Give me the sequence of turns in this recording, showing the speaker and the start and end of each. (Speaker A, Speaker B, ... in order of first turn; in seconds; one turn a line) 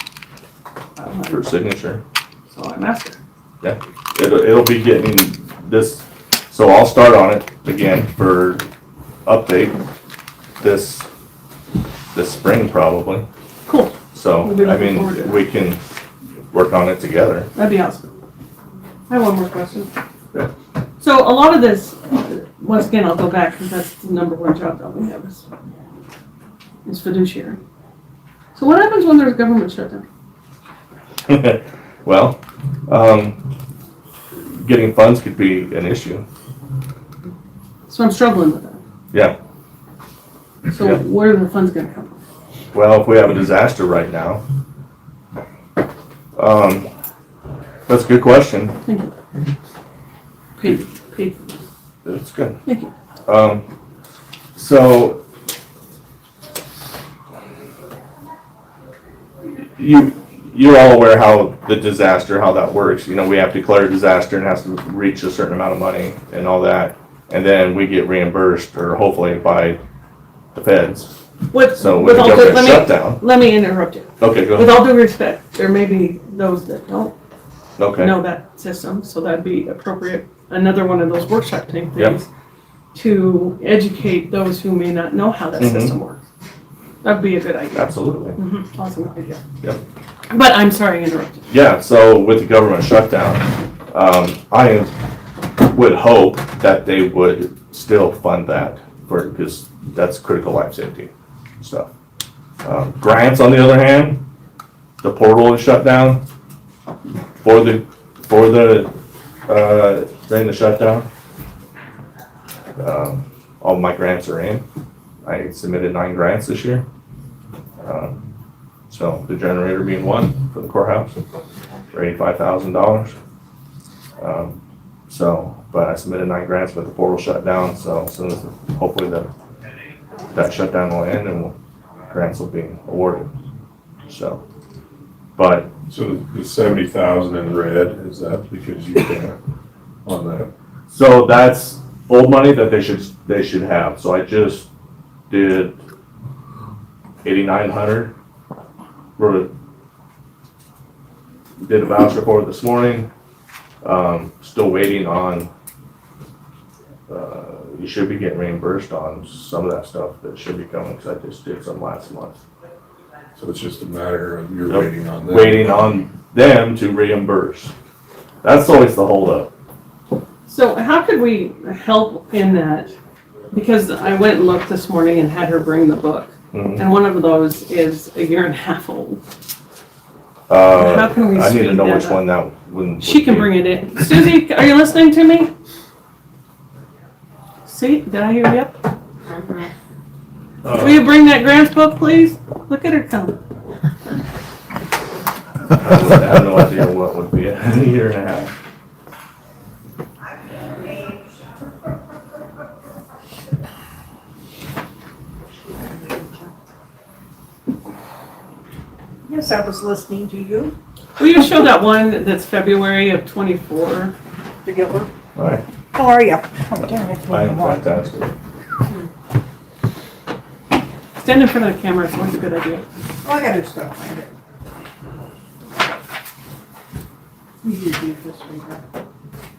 Speaker A: 0.9-1.5
Speaker B: 1.3-2.0
Speaker A: 2.5-3.2
Speaker B: 3.6-8.7
Speaker B: 9.2-9.8
Speaker B: 10.6-11.1
Speaker B: 12.1-13.2
Speaker A: 13.7-15.4
Speaker B: 14.1-15.8
Speaker B: 16.5-17.5
Speaker A: 17.5-18.1
Speaker A: 19.1-19.9
Speaker A: 21.0-25.4
Speaker A: 26.8-27.6
Speaker A: 28.5-30.1
Speaker B: 31.3-33.4
Speaker B: 34.5-36.2
Speaker A: 37.9-38.8
Speaker A: 40.7-42.2
Speaker B: 40.8-41.0
Speaker B: 42.7-44.4
Speaker B: 46.4-46.9
Speaker B: 47.9-48.8
Speaker A: 48.8-49.1
Speaker A: 50.6-51.6
Speaker B: 52.0-52.6
Speaker A: 52.6-52.9
Speaker B: 53.2-53.6
Speaker B: 54.5-55.2
Speaker B: 59.8-69.8
Speaker B: 70.5-71.2
Speaker A: 71.5-77.1
Speaker B: 71.7-73.2
Speaker B: 74.2-74.8
Speaker B: 77.8-78.1
Speaker A: 78.0-82.2
Speaker A: 82.9-86.2
Speaker B: 85.6-86.0
Speaker A: 87.0-89.4
Speaker B: 87.7-88.4
Speaker A: 90.3-91.5
Speaker B: 91.5-94.9
Speaker B: 95.6-101.9
Speaker B: 102.6-104.2
Speaker B: 105.0-106.2
Speaker B: 107.4-108.9
Speaker B: 109.5-111.1
Speaker B: 112.8-114.6
Speaker B: 115.2-116.8
Speaker B: 117.8-118.2
Speaker B: 118.9-121.2
Speaker B: 121.9-123.1
Speaker B: 124.2-129.3
Speaker B: 130.3-131.5
Speaker B: 132.1-133.3
Speaker B: 134.1-134.4
Speaker B: 135.4-135.7
Speaker C: 135.9-139.4
Speaker C: 140.0-140.5
Speaker B: 140.9-144.7
Speaker B: 145.3-145.8
Speaker B: 147.2-148.1
Speaker B: 149.2-149.5
Speaker B: 151.6-153.1
Speaker B: 153.8-155.5
Speaker B: 157.1-162.4
Speaker C: 163.4-165.8
Speaker B: 164.7-167.7
Speaker B: 168.4-169.5
Speaker A: 170.5-172.9
Speaker A: 173.5-179.2
Speaker B: 176.5-176.8
Speaker B: 180.5-183.6
Speaker A: 180.7-182.2
Speaker A: 183.0-185.5
Speaker A: 187.6-188.8
Speaker D: 189.3-189.7
Speaker A: 190.7-193.4
Speaker B: 195.8-198.5
Speaker D: 200.9-201.2
Speaker D: 205.8-206.5
Speaker D: 209.2-210.7
Speaker A: 211.2-214.2
Speaker D: 214.6-215.1
Speaker B: 215.3-215.6
Speaker D: 215.9-217.9
Speaker B: 217.3-218.3
Speaker A: 221.2-222.9
Speaker D: 223.2-224.3
Speaker D: 227.6-228.9